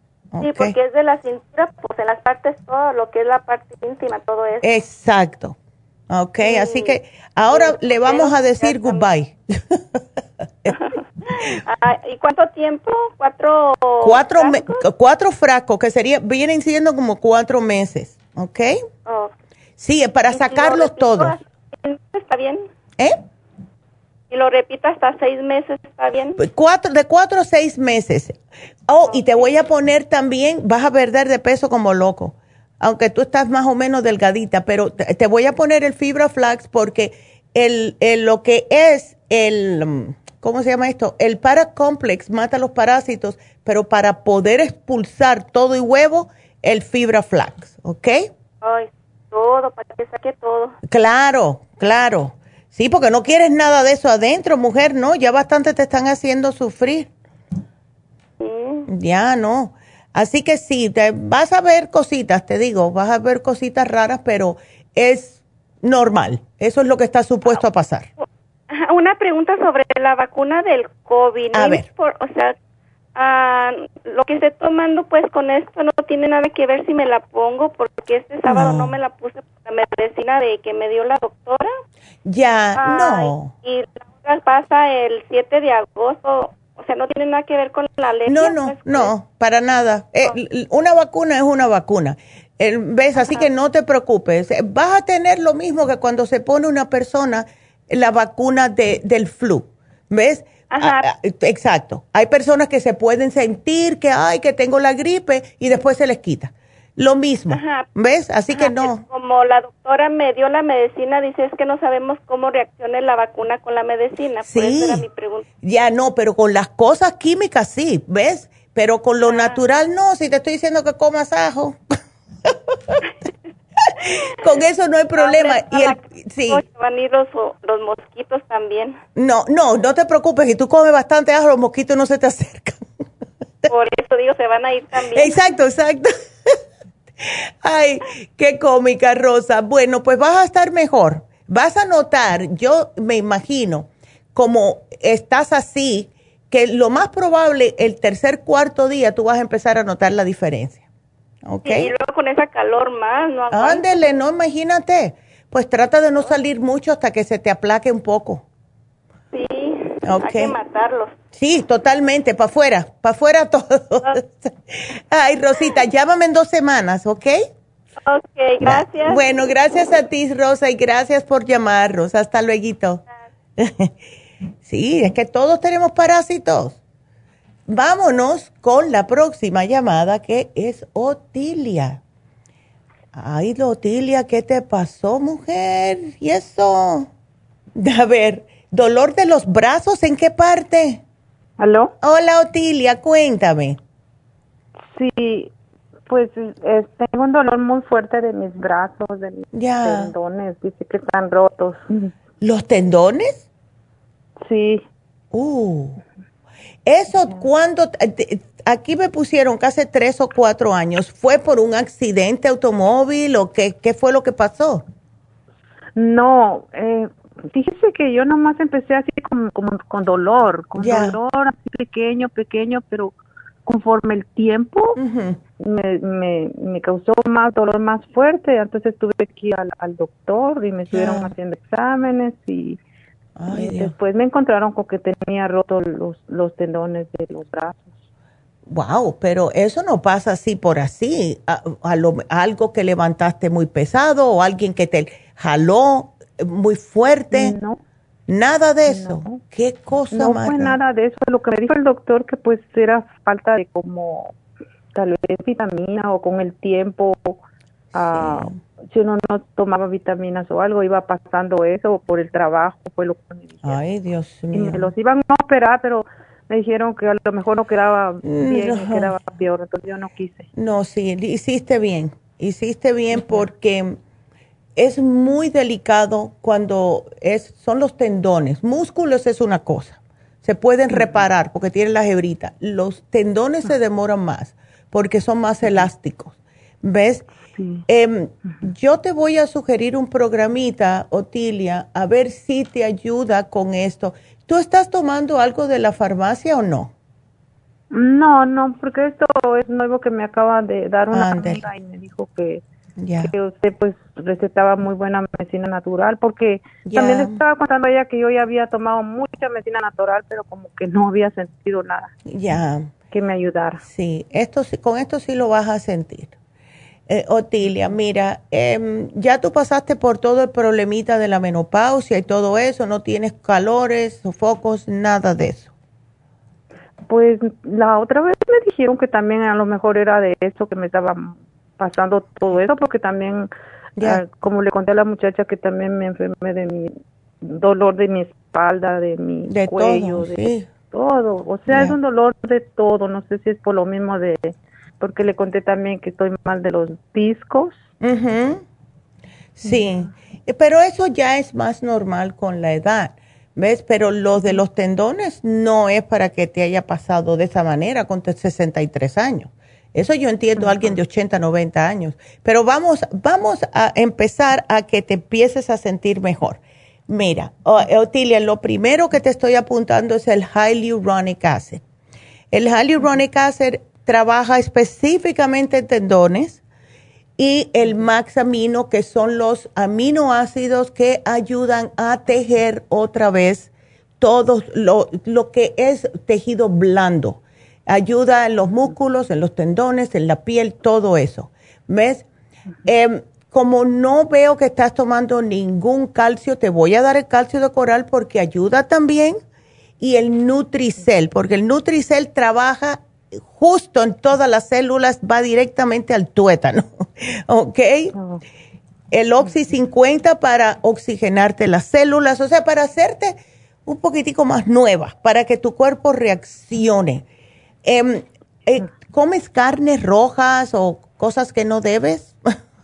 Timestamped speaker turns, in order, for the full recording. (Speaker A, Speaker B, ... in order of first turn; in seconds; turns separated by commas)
Speaker A: 0.3-0.8, Speaker B: 0.4-4.7, Speaker A: 4.6-5.5, Speaker A: 6.1-9.8, Speaker B: 6.4-7.0, Speaker B: 7.5-9.1, Speaker B: 10.7-14.8, Speaker A: 14.0-18.8, Speaker B: 19.1-19.3, Speaker A: 19.8-21.4, Speaker B: 20.3-22.6, Speaker B: 24.3-26.4, Speaker A: 26.4-28.4, Speaker A: 28.9-48.3, Speaker B: 29.1-29.5, Speaker B: 48.6-50.8, Speaker A: 50.9-57.1, Speaker B: 58.4-58.9, Speaker A: 58.9-68.1, Speaker B: 68.2-72.5, Speaker A: 71.5-71.8, Speaker B: 73.2-81.7, Speaker A: 78.5-79.0, Speaker A: 82.3-83.5, Speaker B: 82.8-89.1, Speaker A: 88.3-109.0, Speaker B: 93.2-93.5, Speaker B: 100.7-101.1, Speaker B: 107.5-107.9, Speaker B: 108.6-115.5, Speaker A: 114.5-115.0, Speaker A: 115.6-121.8, Speaker B: 119.3-119.6, Speaker A: 122.5-123.0, Speaker A: 123.9-126.6, Speaker B: 125.2-129.0, Speaker A: 129.2-132.8, Speaker B: 133.7-135.4, Speaker A: 135.1-136.5, Speaker A: 137.6-150.8, Speaker A: 151.5-151.9, Speaker B: 151.7-153.9, Speaker A: 153.5-158.4, Speaker B: 159.3-161.1, Speaker A: 160.1-160.6, Speaker A: 161.3-167.5, Speaker B: 168.1-169.2, Speaker A: 168.6-173.0, Speaker A: 173.6-173.9, Speaker A: 174.7-176.8, Speaker A: 177.7-182.0, Speaker A: 183.1-187.1, Speaker A: 187.8-191.0, Speaker C: 191.6-191.9, Speaker A: 192.0-193.8, Speaker C: 194.9-195.5, Speaker C: 196.1-202.1, Speaker A: 199.5-200.1, Speaker A: 202.4-203.4, Speaker C: 204.4-204.8, Speaker A: 205.3-206.0, Speaker A: 206.8-214.8, Speaker C: 216.0-225.0, Speaker A: 220.8-221.2, Speaker A: 225.0-225.4, Speaker C: 225.6-232.8, Speaker A: 230.9-231.3, Speaker A: 233.4-233.9, Speaker C: 233.5-238.0, Speaker A: 238.7-247.6, Speaker C: 247.3-247.8, Speaker A: 248.3-250.8, Speaker C: 248.9-249.4, Speaker C: 250.1-254.3, Speaker C: 254.9-257.4, Speaker C: 257.9-263.8, Speaker A: 258.0-258.6, Speaker A: 263.6-264.9, Speaker C: 264.5-270.5, Speaker A: 268.2-269.1, Speaker A: 270.6-274.0, Speaker C: 273.1-273.5, Speaker A: 274.8-287.3, Speaker A: 287.9-296.9, Speaker C: 297.9-302.6, Speaker A: 301.1-301.6, Speaker A: 303.0-303.3, Speaker C: 303.2-312.1, Speaker A: 306.9-307.4, Speaker A: 312.3-312.9, Speaker C: 313.1-313.8, Speaker A: 313.8-316.3, Speaker A: 317.1-325.7, Speaker C: 327.1-347.8, Speaker A: 339.5-340.7, Speaker A: 341.7-342.0, Speaker A: 348.0-348.6, Speaker A: 349.6-371.8, Speaker C: 360.6-361.0, Speaker A: 372.5-376.6, Speaker A: 377.4-383.7, Speaker A: 384.2-392.2, Speaker A: 392.9-399.4, Speaker A: 400.0-408.2, Speaker A: 409.1-417.2, Speaker A: 417.9-422.4